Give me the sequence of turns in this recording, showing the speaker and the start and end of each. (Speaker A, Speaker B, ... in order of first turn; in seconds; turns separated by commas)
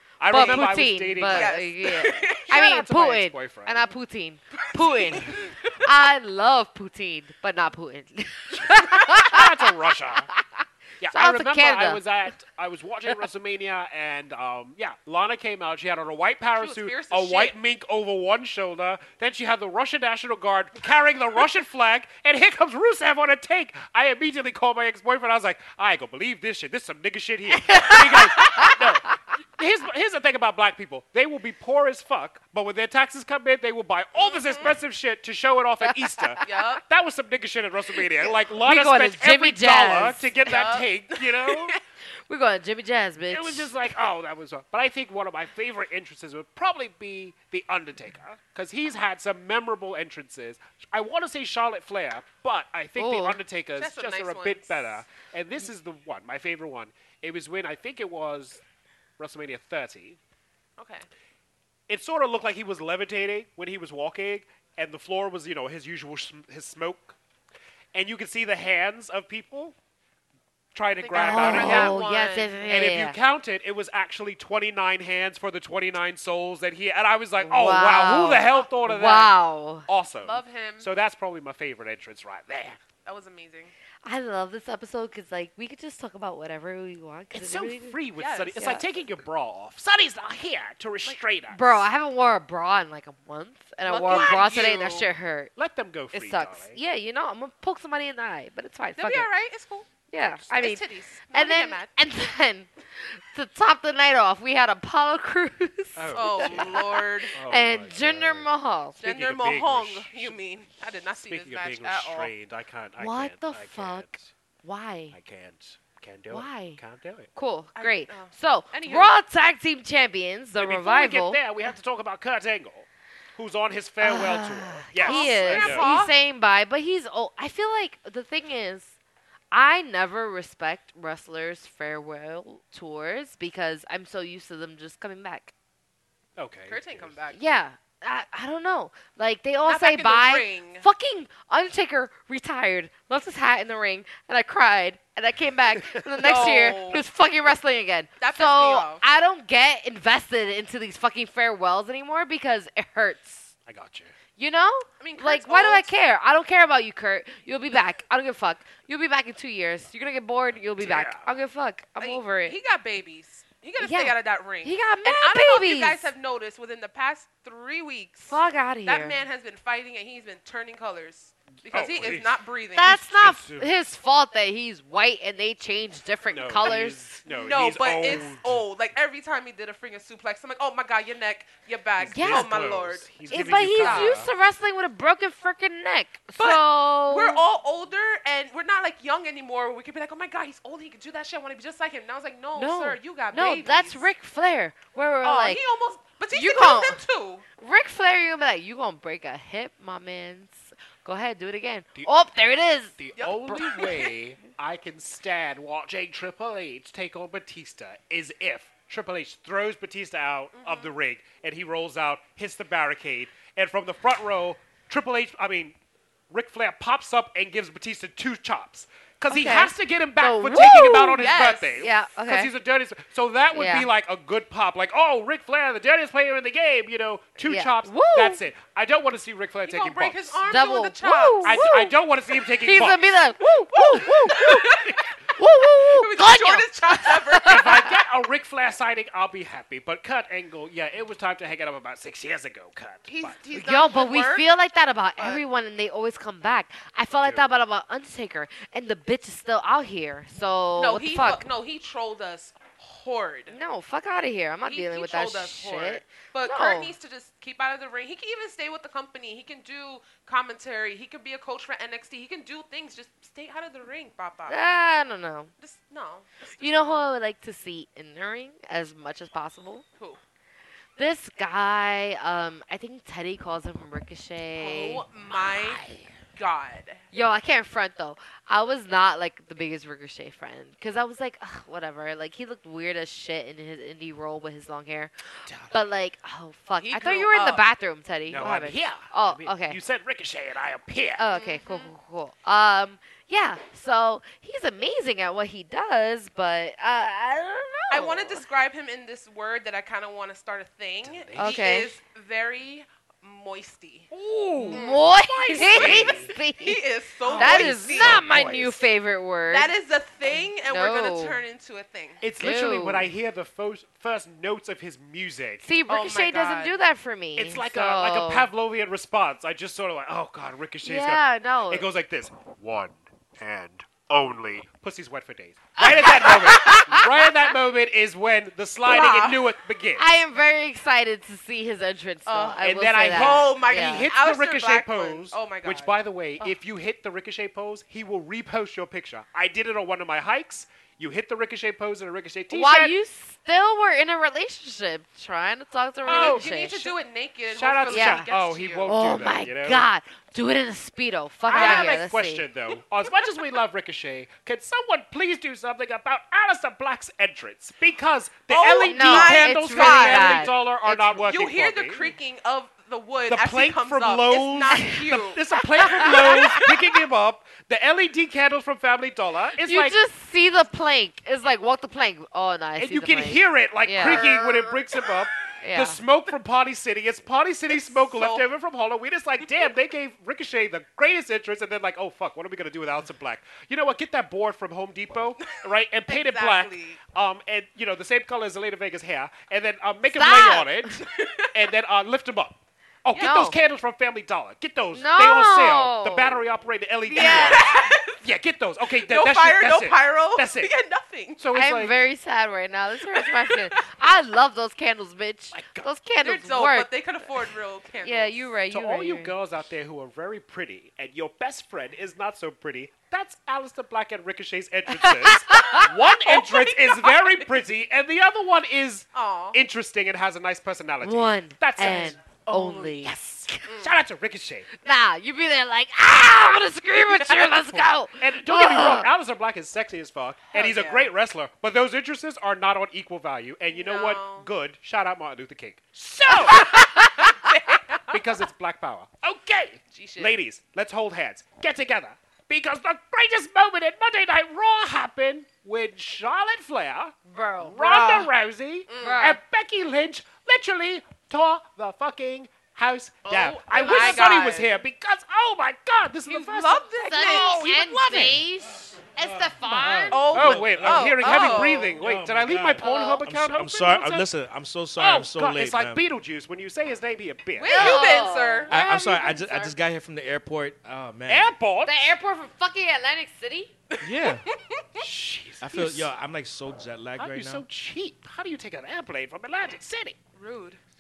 Speaker A: 0.2-3.9, Speaker B: 0.3-9.5, Speaker C: 0.3-2.5, Speaker C: 4.8-5.8, Speaker A: 8.5-10.3, Speaker B: 10.3-12.0, Speaker A: 11.0-41.8, Speaker C: 16.6-17.6, Speaker B: 27.7-28.8, Speaker C: 34.2-34.8, Speaker B: 35.8-36.4, Speaker C: 36.4-36.8, Speaker B: 38.5-40.3, Speaker C: 40.5-41.8, Speaker B: 42.3-43.7, Speaker A: 43.3-58.6, Speaker B: 53.0-53.4, Speaker C: 53.8-55.0, Speaker A: 59.2-60.2, Speaker C: 60.8-61.1, Speaker A: 61.9-67.2, Speaker A: 67.9-69.8, Speaker A: 70.7-72.0, Speaker C: 71.0-72.6, Speaker B: 71.1-73.2, Speaker A: 72.7-79.3, Speaker B: 77.4-79.9, Speaker A: 79.9-82.8, Speaker C: 80.2-80.9, Speaker C: 83.1-83.7, Speaker B: 84.0-88.0, Speaker A: 87.3-91.9, Speaker C: 88.2-88.8, Speaker B: 88.6-88.8, Speaker B: 91.5-95.5, Speaker C: 93.8-95.1, Speaker A: 94.0-94.9, Speaker A: 95.6-96.8, Speaker B: 96.1-99.3, Speaker C: 99.0-100.0, Speaker B: 100.1-109.0, Speaker A: 100.2-100.5, Speaker C: 100.5-101.9, Speaker A: 106.0-110.4, Speaker C: 106.1-107.3, Speaker C: 109.0-112.3, Speaker A: 111.3-114.3, Speaker B: 113.0-114.1, Speaker B: 114.6-115.2, Speaker A: 115.1-117.3, Speaker B: 116.3-116.8, Speaker B: 117.3-121.4, Speaker C: 117.8-119.2, Speaker A: 120.6-125.9, Speaker B: 124.0-129.0, Speaker C: 125.0-126.1, Speaker B: 129.5-135.5, Speaker A: 136.4-137.1, Speaker C: 136.7-137.4, Speaker B: 137.3-153.5, Speaker C: 139.6-140.9, Speaker C: 146.2-147.0, Speaker C: 148.2-149.0, Speaker A: 153.7-154.1, Speaker B: 154.4-162.6, Speaker C: 155.0-155.9, Speaker A: 160.8-161.3, Speaker C: 162.0-173.0, Speaker B: 163.8-166.1, Speaker B: 168.3-169.2, Speaker A: 171.7-173.7, Speaker B: 172.8-177.0, Speaker A: 176.3-178.6, Speaker C: 177.3-184.2, Speaker A: 182.0-184.3, Speaker B: 182.1-182.5, Speaker B: 183.3-187.4, Speaker C: 186.4-194.1, Speaker B: 192.6-195.6, Speaker C: 195.2-197.4, Speaker B: 196.3-197.0, Speaker B: 197.6-202.9, Speaker A: 203.0-215.8, Speaker C: 203.2-204.1, Speaker C: 210.6-210.9, Speaker A: 216.3-230.4, Speaker B: 219.3-222.5, Speaker C: 221.2-221.9, Speaker B: 223.5-223.9, Speaker B: 227.4-228.4, Speaker C: 229.7-231.7, Speaker B: 230.5-231.9, Speaker A: 231.4-233.2, Speaker B: 232.6-234.7, Speaker C: 233.7-235.1, Speaker A: 233.9-235.0, Speaker B: 235.4-237.9, Speaker C: 235.8-237.8, Speaker A: 237.4-243.4, Speaker C: 243.1-244.5, Speaker B: 243.5-251.4, Speaker C: 245.2-245.4, Speaker A: 247.2-247.5, Speaker C: 250.8-253.6, Speaker B: 253.5-256.9, Speaker C: 254.6-264.6, Speaker B: 264.5-265.5, Speaker C: 265.6-267.0, Speaker B: 266.6-269.8, Speaker B: 271.0-275.1, Speaker C: 274.6-275.8, Speaker A: 275.3-276.1, Speaker C: 276.4-277.0, Speaker B: 277.1-289.8, Speaker A: 285.5-285.8, Speaker C: 286.8-287.6, Speaker A: 288.3-291.2, Speaker B: 291.2-298.4, Speaker C: 291.3-291.9, Speaker C: 297.9-304.1, Speaker A: 301.0-301.6, Speaker B: 301.4-302.0, Speaker A: 304.1-306.3, Speaker B: 304.6-306.8, Speaker C: 304.7-308.2, Speaker A: 307.2-308.8, Speaker B: 307.4-309.7, Speaker C: 309.5-312.2, Speaker B: 310.6-311.4, Speaker A: 312.2-315.7, Speaker B: 312.4-313.1, Speaker B: 315.6-318.5, Speaker C: 315.9-316.8, Speaker A: 317.4-330.1, Speaker B: 320.8-321.9, Speaker B: 325.8-327.4, Speaker C: 328.8-329.4, Speaker B: 330.0-334.1, Speaker C: 332.3-336.0, Speaker A: 332.6-342.9, Speaker B: 342.5-346.9, Speaker A: 346.1-346.5, Speaker C: 346.1-348.9, Speaker A: 347.5-349.9, Speaker B: 347.9-348.3, Speaker B: 348.9-352.5, Speaker A: 351.5-362.1, Speaker C: 351.5-352.1, Speaker C: 358.5-366.7, Speaker B: 358.9-361.1, Speaker A: 363.2-370.0, Speaker B: 365.8-366.6, Speaker B: 369.6-374.3, Speaker A: 372.8-400.7, Speaker C: 374.0-375.1, Speaker B: 375.6-376.0, Speaker C: 377.7-378.5, Speaker C: 385.5-387.0, Speaker B: 390.1-390.9, Speaker C: 391.1-391.5, Speaker C: 393.1-393.4, Speaker B: 393.2-393.6, Speaker B: 394.9-396.4, Speaker B: 397.1-397.8, Speaker C: 397.1-398.2, Speaker C: 399.0-401.4, Speaker A: 401.4-401.9, Speaker B: 401.5-406.9, Speaker C: 403.1-403.6, Speaker A: 405.5-405.9, Speaker C: 406.2-408.5, Speaker B: 408.0-409.3, Speaker A: 408.7-424.7, Speaker B: 414.9-415.9, Speaker C: 415.7-417.5, Speaker C: 419.1-419.6, Speaker B: 421.0-423.7, Speaker C: 423.7-423.9, Speaker B: 424.8-429.1, Speaker A: 427.7-436.8, Speaker C: 430.5-431.1, Speaker C: 433.7-434.5, Speaker C: 436.5-438.2, Speaker A: 438.1-458.4, Speaker C: 439.9-440.4, Speaker B: 447.3-448.1, Speaker C: 447.8-448.3, Speaker C: 448.9-449.3, Speaker B: 449.0-449.4, Speaker C: 453.3-454.7, Speaker C: 456.3-457.7, Speaker B: 457.1-460.2, Speaker D: 459.2-466.0, Speaker C: 460.1-461.9, Speaker A: 460.3-464.3, Speaker B: 462.8-463.2, Speaker A: 465.0-468.1, Speaker C: 467.6-468.7, Speaker B: 467.7-469.8, Speaker D: 468.7-471.5, Speaker A: 471.3-472.1, Speaker B: 471.9-473.7, Speaker C: 473.9-475.1, Speaker D: 474.0-474.4, Speaker A: 475.0-476.1, Speaker D: 475.6-477.6, Speaker A: 477.2-480.2, Speaker C: 480.4-480.8